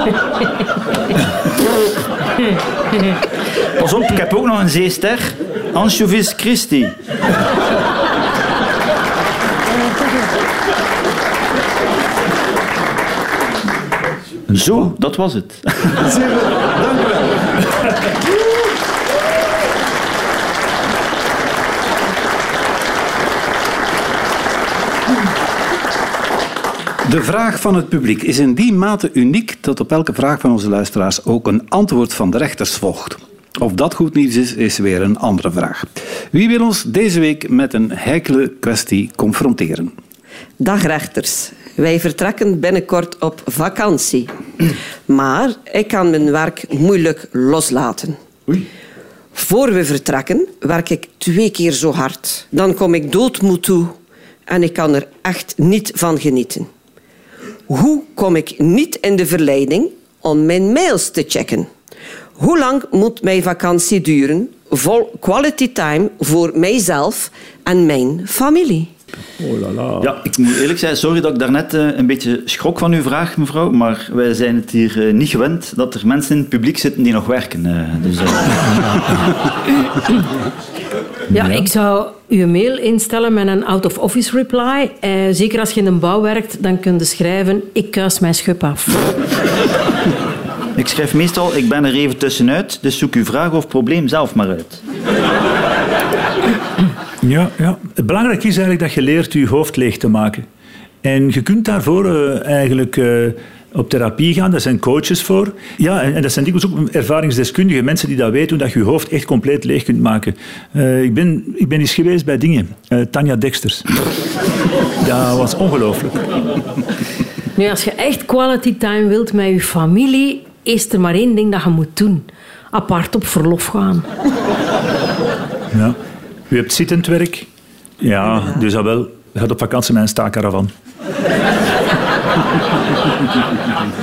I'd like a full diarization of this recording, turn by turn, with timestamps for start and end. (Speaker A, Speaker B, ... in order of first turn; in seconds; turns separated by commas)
Speaker A: 3.8-7.0, Speaker A: 14.5-16.0, Speaker B: 15.9-17.4, Speaker B: 27.0-39.9, Speaker C: 40.6-48.6, Speaker C: 49.4-54.0, Speaker C: 54.5-56.7, Speaker C: 57.7-61.7, Speaker C: 62.4-68.9, Speaker D: 69.4-70.2, Speaker A: 70.0-78.8, Speaker E: 81.3-89.0, Speaker A: 90.8-94.8, Speaker D: 97.2-100.5, Speaker D: 101.0-113.9, Speaker D: 115.0-116.2, Speaker E: 117.6-124.1, Speaker D: 126.5-127.5, Speaker D: 128.0-130.7